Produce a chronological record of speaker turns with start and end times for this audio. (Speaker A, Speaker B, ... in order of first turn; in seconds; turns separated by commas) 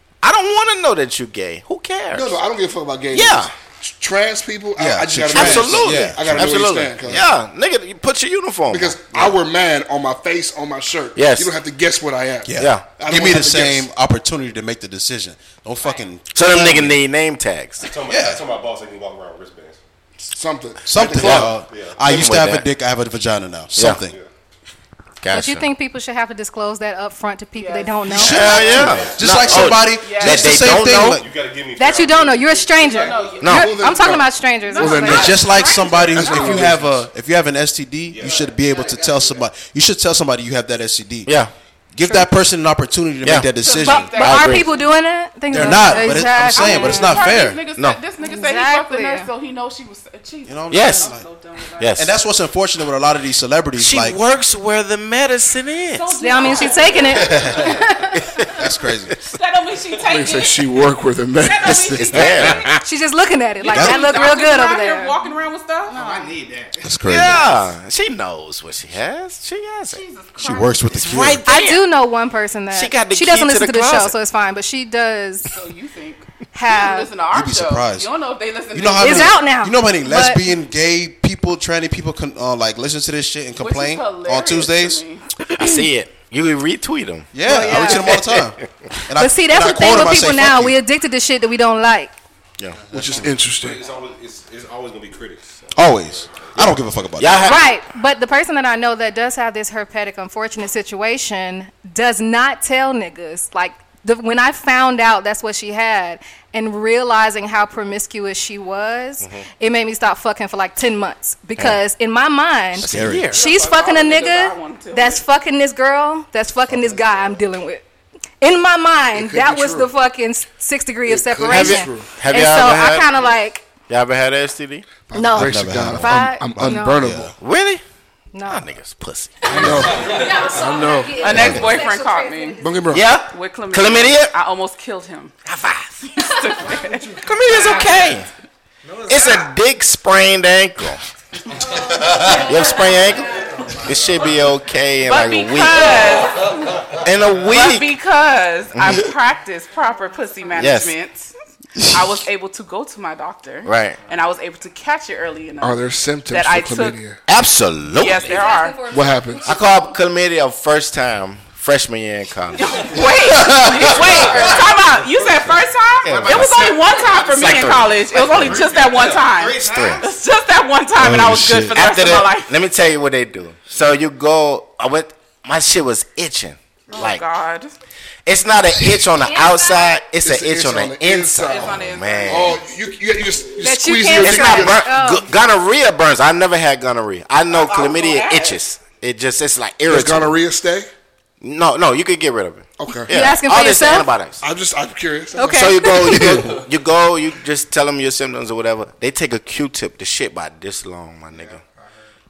Speaker A: 0.2-2.4, Speaker B: 2.1-7.3, Speaker A: 3.1-3.5, Speaker C: 4.8-7.2, Speaker A: 5.3-9.2, Speaker B: 8.7-13.9, Speaker A: 11.2-11.5, Speaker C: 12.5-17.0, Speaker A: 12.6-12.9, Speaker A: 16.3-17.9, Speaker D: 17.8-19.8, Speaker C: 18.1-18.4, Speaker B: 20.3-21.4, Speaker C: 20.9-24.1, Speaker D: 21.0-22.3, Speaker A: 21.1-22.7, Speaker A: 23.7-24.0, Speaker A: 25.2-25.7, Speaker E: 25.3-28.7, Speaker F: 27.6-28.1, Speaker C: 28.1-31.2, Speaker A: 28.1-31.2, Speaker D: 28.6-29.7, Speaker F: 29.8-30.6, Speaker D: 30.7-32.8, Speaker E: 31.8-35.4, Speaker F: 32.8-33.7, Speaker A: 33.4-33.8, Speaker B: 33.5-35.5, Speaker F: 34.6-36.7, Speaker C: 35.0-41.3, Speaker B: 36.2-36.8, Speaker D: 36.6-37.0, Speaker D: 38.1-38.6, Speaker A: 41.3-41.5, Speaker C: 41.9-44.4, Speaker A: 43.2-43.5, Speaker F: 43.5-44.9, Speaker E: 43.8-47.4, Speaker A: 44.2-44.6, Speaker C: 45.5-47.6, Speaker F: 45.5-52.0, Speaker E: 48.2-49.3, Speaker C: 50.5-51.3, Speaker A: 50.7-51.1, Speaker A: 51.8-52.1, Speaker C: 52.0-54.2, Speaker A: 53.8-56.1, Speaker F: 55.9-57.7, Speaker E: 56.2-58.3, Speaker C: 57.3-57.6, Speaker C: 58.6-59.1, Speaker F: 59.3-60.7, Speaker B: 60.1-62.7, Speaker F: 61.4-62.6, Speaker A: 62.0-62.7, Speaker E: 62.8-65.2, Speaker F: 63.6-66.3, Speaker C: 63.7-64.1, Speaker G: 65.9-67.6, Speaker C: 66.8-67.5, Speaker A: 67.0-70.0, Speaker F: 69.9-70.9, Speaker C: 70.4-71.5, Speaker A: 70.9-71.9, Speaker E: 71.5-75.5, Speaker A: 72.7-74.2, Speaker F: 75.5-79.4, Speaker E: 76.5-77.1, Speaker C: 77.3-78.1, Speaker C: 78.7-85.0, Speaker E: 79.0-80.4, Speaker F: 83.6-85.3, Speaker A: 85.6-88.7, Speaker C: 87.3-90.8, Speaker E: 87.5-88.1, Speaker E: 89.2-92.1, Speaker B: 92.9-93.8, Speaker C: 93.0-93.3, Speaker D: 93.5-97.0, Speaker C: 95.7-97.5, Speaker A: 97.2-97.7, Speaker E: 97.4-117.8, Speaker A: 112.8-113.4, Speaker C: 112.8-113.4, Speaker F: 113.3-115.2, Speaker E: 118.4-123.7, Speaker B: 119.2-119.9, Speaker B: 121.1-122.1, Speaker A: 121.5-123.2, Speaker A: 123.9-124.9, Speaker B: 125.1-127.3, Speaker E: 125.1-127.0, Speaker C: 125.3-127.3, Speaker A: 127.4-127.8, Speaker E: 128.3-128.7, Speaker A: 128.5-129.9, Speaker E: 129.4-132.8, Speaker B: 129.5-131.3, Speaker C: 129.6-129.8, Speaker F: 131.2-132.6, Speaker C: 131.4-131.7, Speaker B: 132.6-133.1, Speaker A: 132.9-134.3, Speaker F: 133.2-135.3, Speaker A: 135.5-136.0, Speaker F: 136.1-137.2, Speaker G: 136.7-137.9, Speaker A: 137.2-138.3, Speaker G: 138.8-139.5, Speaker A: 139.1-141.0, Speaker G: 141.7-142.5, Speaker E: 141.7-143.4, Speaker A: 142.2-146.2, Speaker G: 143.3-144.3, Speaker F: 145.0-146.9, Speaker A: 147.0-147.9, Speaker F: 147.4-151.3, Speaker A: 148.8-149.1, Speaker E: 149.8-150.7, Speaker A: 150.6-150.9, Speaker C: 151.8-152.1, Speaker F: 151.9-157.0, Speaker A: 153.7-154.0, Speaker B: 155.6-157.2, Speaker A: 157.3-158.4, Speaker F: 157.9-158.8, Speaker E: 158.2-159.9, Speaker B: 158.9-159.5, Speaker A: 159.4-164.6, Speaker F: 162.6-172.6, Speaker C: 163.3-163.9, Speaker G: 163.8-170.1, Speaker A: 166.1-166.8, Speaker A: 167.3-168.9, Speaker A: 169.7-170.1, Speaker C: 171.0-171.8, Speaker A: 171.8-177.2, Speaker F: 176.9-177.7, Speaker A: 178.3-182.6, Speaker E: 179.2-180.0, Speaker B: 180.2-184.8, Speaker F: 181.5-182.6, Speaker E: 183.6-185.3, Speaker A: 184.2-190.3, Speaker F: 187.5-188.6, Speaker B: 189.9-190.9, Speaker A: 191.4-194.4, Speaker B: 192.8-193.1, Speaker E: 193.1-194.1, Speaker B: 194.4-195.8, Speaker E: 195.4-196.3, Speaker A: 195.4-201.6, Speaker C: 196.1-196.6, Speaker G: 201.3-202.1